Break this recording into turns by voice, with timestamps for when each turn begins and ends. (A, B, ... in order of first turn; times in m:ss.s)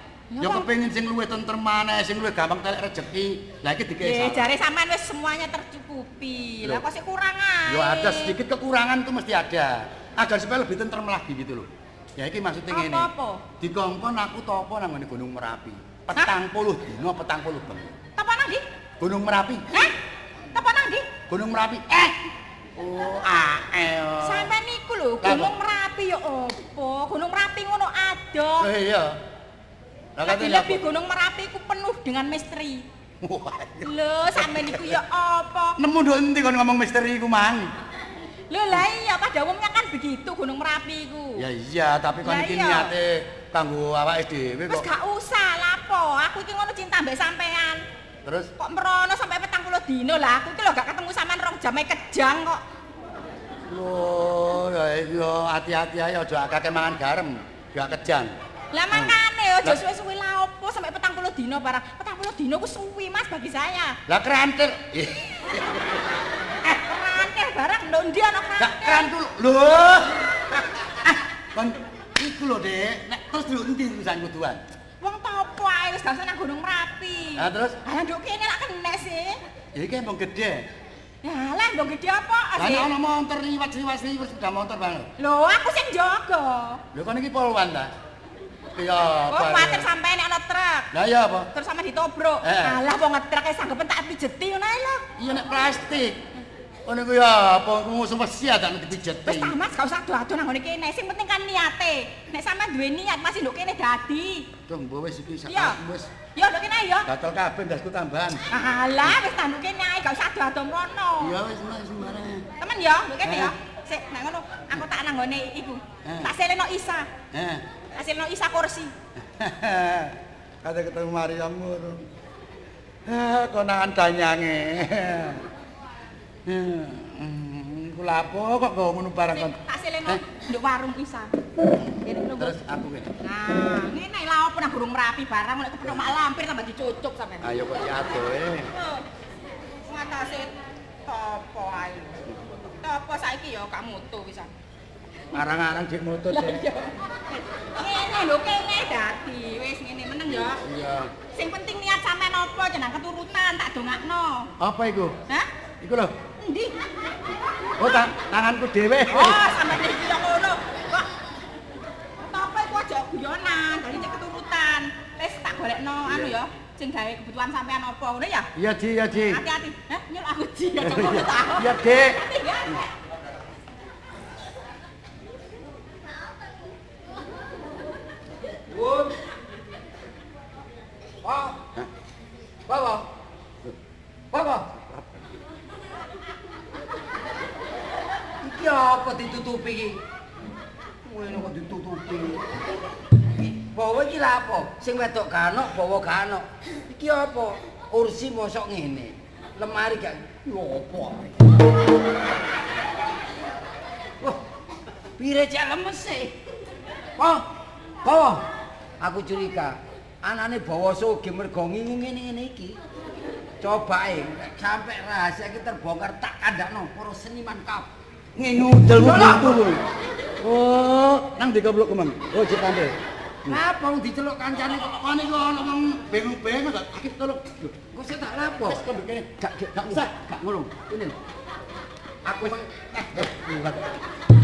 0:00.3-0:00.7 A
0:00.4-0:04.5 B
0:04.0-0:08.4 A
0:07.6-0:17.9 B
0:12.7-0:13.4 A
0:18.2-0:18.6 A
0:19.0-0:19.7 B
0:20.5-0:21.1 A
0:21.3-0:22.2 B
0:22.8-0:24.5 B
0:24.2-0:28.7 A
0:25.2-0:25.5 B
0:28.6-0:29.2 B
0:30.2-0:30.8 B
0:30.2-0:32.8 A
0:33.2-0:35.0 B
0:33.8-0:35.8 A
0:35.8-0:37.7 B
0:38.5-0:41.4 A
0:41.4-0:44.9 B
0:42.2-0:42.9 A
0:44.7-0:47.8 A
0:48.2-0:48.5 B
0:48.6-0:52.6 A
0:53.7-0:58.3 B
0:58.7-1:04.0 A
0:58.9-0:59.8 B
1:04.1-1:05.8 B
1:06.6-1:09.1 A
1:08.6-1:10.2 B
1:11.0-1:14.6 B
1:15.0-1:19.4 A
1:17.4-1:17.8 B
1:19.7-1:20.6 B
1:21.2-1:22.9 A
1:22.6-1:25.1 B
1:25.2-1:26.8 A
1:26.9-1:27.9 B
1:28.8-1:29.9 B
1:29.3-1:30.9 A
1:30.9-1:31.5 B
1:31.5-1:35.0 A
1:32.4-1:32.8 B
1:35.2-1:36.2 B
1:36.8-1:39.6 B
1:39.2-1:44.4 A
1:44.6-1:46.1 B
1:45.4-1:45.8 A
1:46.4-1:47.1 A
1:47.0-1:48.4 B
1:48.5-1:51.4 A
1:51.2-1:52.5 B
1:52.6-1:57.1 A
1:53.2-1:53.5 B
1:56.0-1:56.3 B
1:57.3-1:57.6 B
1:57.9-1:58.9 A
1:59.3-2:02.0 B
2:03.0-2:05.4 B
2:06.4-2:10.2 B
2:09.3-2:11.4 A
2:12.0-2:12.5 A
2:12.4-2:13.1 B
2:13.2-2:17.6 A
2:17.4-2:18.7 B
2:18.7-2:19.0 A
2:19.8-2:20.5 A
2:21.0-2:24.5 A
2:25.3-2:26.6 B
2:26.3-2:30.6 A
2:30.3-2:31.1 B
2:31.2-2:34.5 A
2:34.6-2:35.2 B
2:35.8-2:36.1 B
2:36.4-2:36.7 A
2:37.8-2:39.5 B
2:39.1-2:41.1 A
2:42.2-2:48.5 A
2:46.0-2:46.3 B
2:48.5-2:49.4 B
2:49.1-2:52.8 A
2:50.8-2:52.2 B
2:58.7-2:59.1 C
3:01.2-3:01.6 C
3:02.7-3:03.0 C
3:04.3-3:04.7 C
3:08.4-3:10.0 C
3:11.0-3:12.4 C
3:13.6-3:21.3 C
3:25.2-3:26.3 C
3:27.2-3:27.4 C
3:28.0-3:28.4 C
3:29.0-3:32.8 C
3:33.6-3:37.9 C
3:38.4-3:39.8 B
3:38.9-3:39.6 C
3:40.4-3:43.6 B
3:43.5-3:45.0 C
3:44.9-3:47.7 B
3:47.9-3:51.2 C
3:48.6-3:50.1 B
3:52.2-3:52.7 C
3:52.4-3:53.9 B